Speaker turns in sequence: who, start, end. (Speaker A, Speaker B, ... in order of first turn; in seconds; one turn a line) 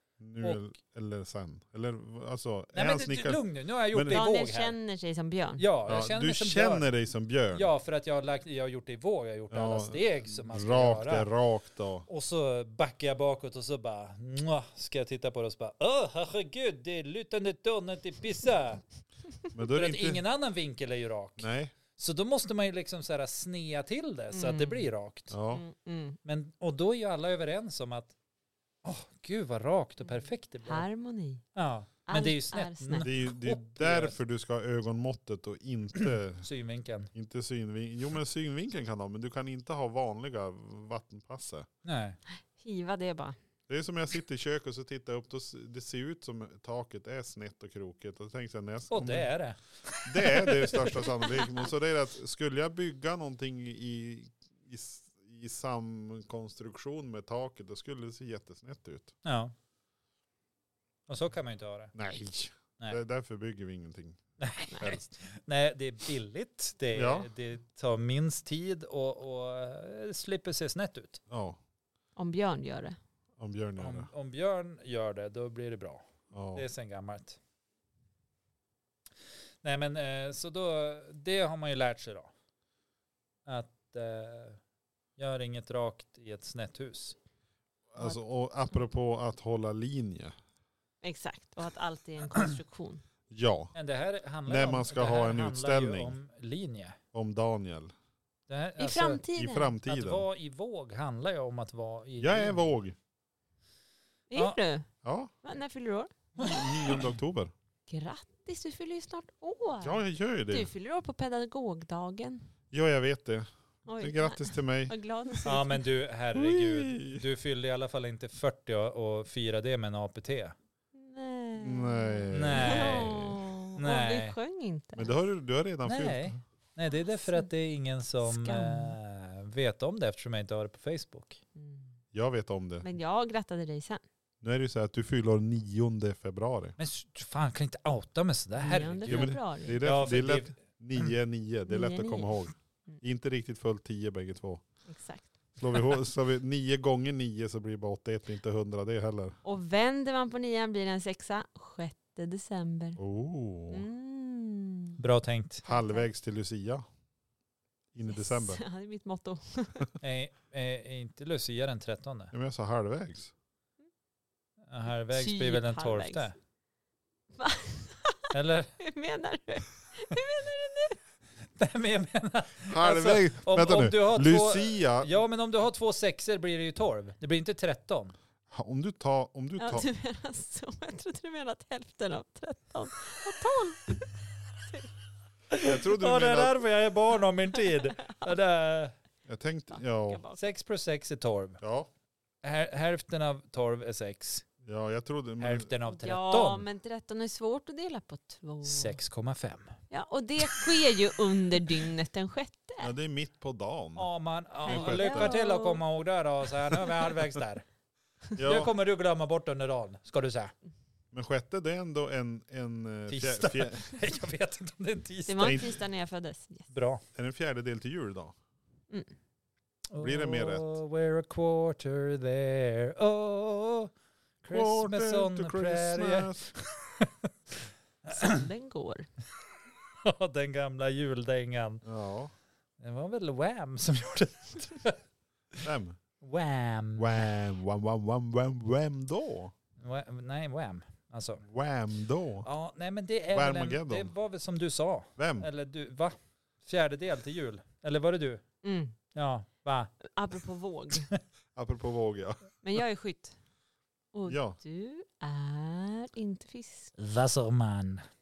Speaker A: 0.2-4.2
Speaker B: 2.7-4.7
Speaker C: 4.1-5.6
Speaker B: 5.6-6.9
Speaker A: 5.9-7.7
Speaker B: 7.5-11.3
Speaker A: 9.5-12.1
Speaker B: 12.1-18.8
Speaker A: 19.5-20.2
Speaker B: 19.6-25.4
Speaker A: 21.4-21.7
Speaker C: 24.3-24.9
Speaker A: 25.3-25.6
Speaker C: 25.5-26.2
Speaker B: 26.2-28.1
Speaker B: 28.8-30.9
Speaker C: 30.1-31.4
Speaker B: 31.5-34.2
Speaker C: 32.1-33.1
Speaker A: 33.0-36.5
Speaker B: 36.4-37.1
Speaker A: 37.1-41.7
Speaker B: 41.8-42.2
Speaker C: 42.6-43.4
Speaker A: 43.7-49.3
Speaker B: 48.9-51.1
Speaker A: 50.0-59.1
Speaker B: 59.2-59.5
Speaker B: 61.1-61.9
Speaker A: 61.9-64.2
Speaker B: 64.4-71.2
Speaker A: 64.7-65.2
Speaker A: 66.9-67.3
Speaker A: 71.3-71.6
Speaker C: 72.2-73.0
Speaker A: 73.4-74.1
Speaker B: 73.8-76.0
Speaker A: 76.3-76.7
Speaker B: 76.5-77.4
Speaker B: 79.6-82.3
Speaker B: 83.5-84.6
Speaker B: 85.2-87.2
Speaker A: 87.9-90.3
Speaker C: 91.0-93.0
Speaker A: 93.3-93.7
Speaker B: 93.7-97.0
Speaker A: 94.5-96.2
Speaker A: 97.1-97.9
Speaker B: 98.5-99.2
Speaker C: 98.8-99.8
Speaker A: 99.3-100.2
Speaker B: 99.8-102.6
Speaker A: 102.2-103.0
Speaker C: 104.3-104.9
Speaker A: 105.0-105.3
Speaker C: 105.4-106.1
Speaker A: 106.4-107.5
Speaker C: 107.9-112.5
Speaker A: 109.8-110.7
Speaker A: 112.7-114.9
Speaker C: 113.8-115.8
Speaker B: 115.4-120.5
Speaker A: 116.3-117.2
Speaker C: 120.9-125.2
Speaker A: 121.5-123.4
Speaker B: 122.3-123.2
Speaker B: 123.8-124.3
Speaker A: 125.0-126.4
Speaker B: 125.8-131.4
Speaker C: 127.0-127.5
Speaker C: 128.2-129.0
Speaker C: 131.6-131.9
Speaker A: 132.1-132.9
Speaker C: 132.8-134.0
Speaker A: 134.4-136.7
Speaker B: 136.8-141.0
Speaker C: 138.6-139.8
Speaker A: 139.1-144.6
Speaker C: 141.7-142.3
Speaker C: 144.9-145.3
Speaker A: 145.6-149.4
Speaker C: 149.4-153.0
Speaker A: 153.0-153.8
Speaker C: 153.7-155.0
Speaker B: 155.0-155.6
Speaker A: 155.6-156.8
Speaker C: 155.7-156.1
Speaker A: 157.9-158.6
Speaker C: 158.1-159.9
Speaker B: 160.0-162.3
Speaker A: 162.3-163.3
Speaker B: 164.7-166.3
Speaker C: 165.1-166.3
Speaker C: 167.3-171.0
Speaker B: 168.3-168.7
Speaker B: 171.6-178.1
Speaker A: 172.7-175.2
Speaker A: 178.5-179.8
Speaker C: 179.6-184.9
Speaker B: 185.5-188.9
Speaker A: 185.6-186.6
Speaker A: 189.2-190.2
Speaker C: 189.8-190.4
Speaker B: 190.3-191.6
Speaker A: 191.6-191.9
Speaker B: 192.4-194.4
Speaker A: 194.6-195.7
Speaker B: 195.4-196.6
Speaker C: 195.9-199.0
Speaker B: 198.6-199.7
Speaker C: 199.9-202.9
Speaker A: 202.8-204.1
Speaker B: 203.9-207.6
Speaker A: 204.7-205.3
Speaker C: 204.7-205.8
Speaker A: 208.3-208.7
Speaker B: 208.4-210.5
Speaker A: 211.1-213.9
Speaker B: 213.1-215.6
Speaker C: 215.3-216.7
Speaker A: 215.4-215.7
Speaker B: 216.7-217.0
Speaker A: 217.1-218.3
Speaker B: 219.9-223.9
Speaker A: 220.0-220.8
Speaker B: 224.4-228.4
Speaker A: 224.5-226.5
Speaker C: 228.1-229.1
Speaker B: 230.0-231.8
Speaker A: 231.8-232.3
Speaker B: 232.8-235.0
Speaker A: 235.6-236.0
Speaker B: 236.2-237.3
Speaker A: 237.0-239.5
Speaker B: 239.8-241.4
Speaker A: 241.4-242.5
Speaker B: 242.4-248.4
Speaker A: 243.3-244.1
Speaker A: 245.2-245.5
Speaker C: 248.6-248.9
Speaker B: 249.1-249.9
Speaker C: 250.0-251.1
Speaker A: 251.5-252.5
Speaker C: 252.6-253.3
Speaker C: 254.1-256.9
Speaker A: 254.3-254.6
Speaker B: 257.0-258.1